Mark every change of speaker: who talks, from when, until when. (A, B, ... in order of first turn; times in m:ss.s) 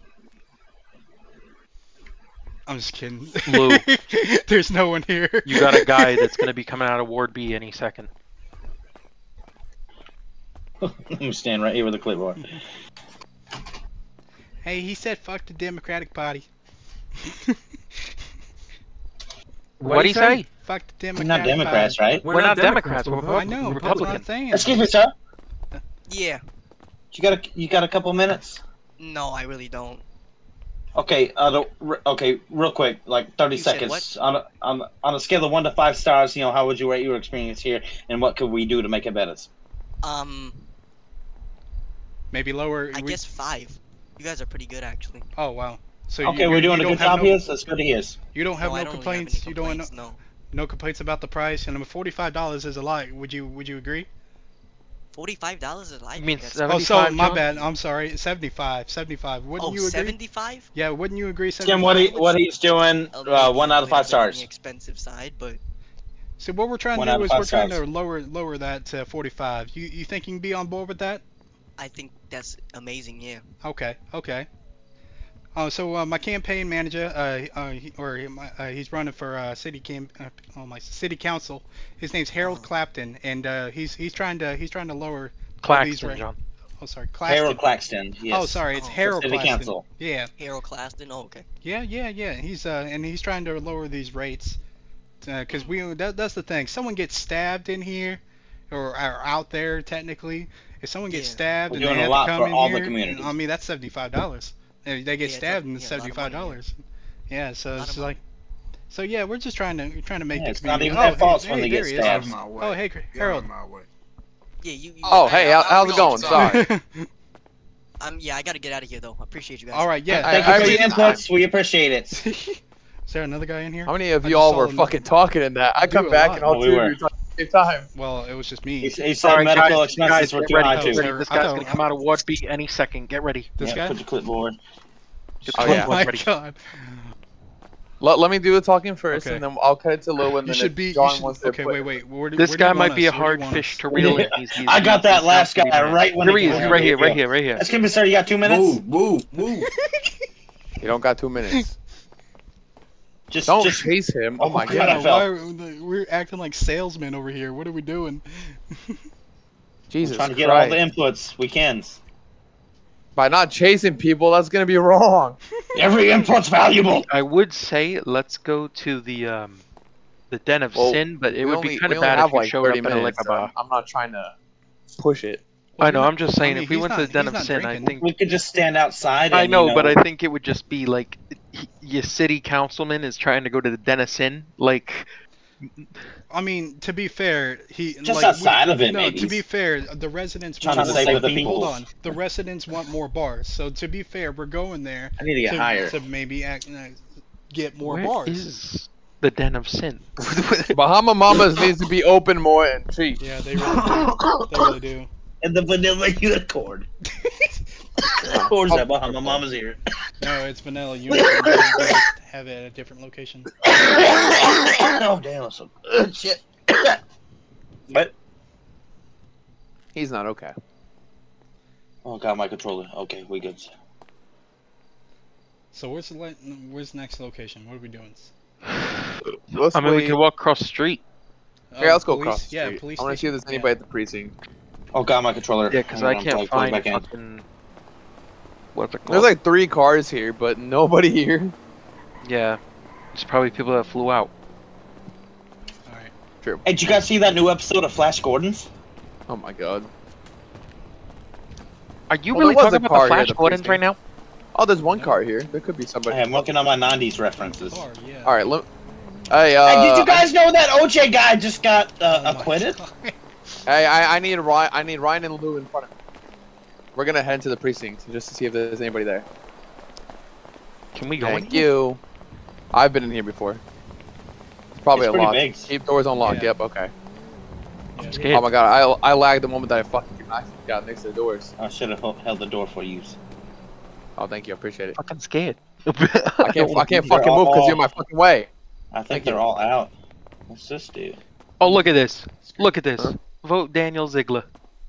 0:02.7-0:06.5 A
0:03.4-0:03.8 B
0:05.4-0:08.1 B
0:10.8-0:12.4 C
0:14.6-0:16.5 A
0:17.2-0:17.6 A
0:19.8-0:20.4 B
0:19.8-0:20.4 D
0:20.6-0:22.0 A
0:21.2-0:22.3 C
0:22.2-0:24.1 D
0:22.3-0:24.3 B
0:23.2-0:24.8 A
0:24.5-0:25.1 C
0:26.1-0:26.4 E
0:27.1-0:28.6 C
0:29.0-0:30.0 E
0:31.0-0:39.5 C
0:33.5-0:34.0 E
0:40.0-0:40.7 E
0:42.3-0:43.2 A
0:42.9-0:45.2 E
0:45.4-0:47.4 A
0:46.2-0:48.2 C
0:48.3-0:50.0 A
0:48.6-0:50.2 E
0:50.5-0:54.1 A
0:55.1-0:57.7 E
0:56.2-0:57.4 B
0:56.7-1:00.2 A
0:59.6-1:00.7 E
1:00.7-1:02.3 A
1:01.6-1:04.4 C
1:03.1-1:05.6 E
1:06.4-1:11.2 A
1:06.9-1:07.8 C
1:11.8-1:13.5 E
1:13.6-1:14.5 A
1:15.5-1:27.6 A
1:22.4-1:22.7 E
1:25.6-1:26.4 B
1:27.2-1:29.8 C
1:28.3-1:30.3 A
1:28.7-1:29.0 E
1:30.4-1:31.4 E
1:31.6-1:34.6 A
1:35.2-1:48.2 A
1:41.1-1:41.4 E
1:41.7-1:43.3 C
1:45.2-1:46.6 E
1:47.7-1:48.2 E
1:48.9-1:53.5 A
1:50.3-1:52.4 C
1:52.0-1:53.8 D
1:54.6-1:56.6 E
1:55.0-1:56.7 F
1:55.3-1:56.5 D
1:56.3-1:57.1 A
1:58.0-2:00.2 E
1:59.7-2:01.1 A
2:00.1-2:01.2 F
2:00.2-2:02.2 C
2:02.1-2:05.0 A
2:03.8-2:07.9 F
2:05.8-2:06.5 A
2:06.4-2:07.0 C
2:07.9-2:09.0 A
2:08.8-2:11.1 C
2:09.2-2:13.5 B
2:10.6-2:11.8 A
2:13.6-2:14.0 A
2:13.6-2:14.6 C
2:15.4-2:16.3 B
2:15.5-2:15.8 C
2:15.5-2:16.0 F
2:15.6-2:17.1 A
2:18.0-2:21.8 F
2:19.1-2:19.4 A
2:20.4-2:24.2 A
2:22.4-2:27.6 B
2:23.9-2:28.8 C
2:26.4-2:26.8 A
2:28.4-2:29.7 D
2:29.4-2:30.1 A
2:30.8-2:31.7 F
2:33.3-2:35.3 C
2:33.5-2:35.0 F
2:34.6-2:39.0 A
2:39.9-2:40.8 F
2:40.0-2:42.0 C
2:43.2-2:45.4 F
2:45.7-2:47.1 C
2:47.1-2:49.6 B
2:50.3-2:53.5 B
2:50.7-2:54.3 F
2:55.0-2:55.4 F
2:55.8-2:58.0 A
2:55.8-2:58.1 B
2:58.0-3:00.0 C
2:59.3-3:05.1 B
3:06.3-3:18.4 A
3:08.0-3:09.4 C
3:10.6-3:11.8 C
3:10.8-3:11.5 F
3:15.2-3:16.0 C
3:17.8-3:20.8 B
3:20.7-3:23.2 F
3:23.2-3:25.1 A
3:23.6-3:24.7 C
3:25.4-3:26.9 C
3:27.2-3:27.5 A
3:28.1-3:29.8 C
3:28.2-3:29.4 F
3:30.2-3:33.5 A
3:31.1-3:32.0 C
3:33.6-3:37.0 C
3:39.9-3:40.5 F
3:42.0-3:43.7 C
3:45.7-3:48.3 A
3:49.2-3:50.2 F
3:49.7-3:51.0 B
3:51.7-3:53.7 A
3:51.8-3:54.3 F
3:54.9-3:57.0 C
3:55.7-3:57.4 B
3:58.7-3:59.3 B
3:59.1-4:01.5 F
4:02.2-4:02.6 B
4:03.1-4:04.3 B
4:05.8-4:06.1 A
4:06.6-4:08.7 C
4:09.3-4:09.9 F
4:12.1-4:14.0 B
4:12.3-4:13.8 F
4:14.5-4:16.5 F
4:16.1-4:17.8 C
4:17.4-4:18.4 A
4:18.2-4:18.6 F
4:19.3-4:20.3 F
4:19.6-4:22.8 C
4:22.1-4:23.2 A
4:23.7-4:25.9 F
4:26.9-4:29.2 F
4:30.9-4:31.5 B
4:31.2-4:32.0 F
4:32.7-4:33.6 F
4:34.8-4:36.9 F
4:34.9-4:35.7 C
4:36.2-4:36.5 A
4:38.0-4:38.3 A
4:38.0-4:38.4 B
4:38.3-4:41.5 F
4:41.6-4:43.2 C
4:44.2-4:45.0 F
4:45.0-4:47.2 B
4:46.4-4:48.5 F
4:47.1-4:47.8 C
4:48.9-4:49.9 C
4:49.1-4:49.4 F
4:50.5-4:51.2 C
4:51.6-4:54.4 B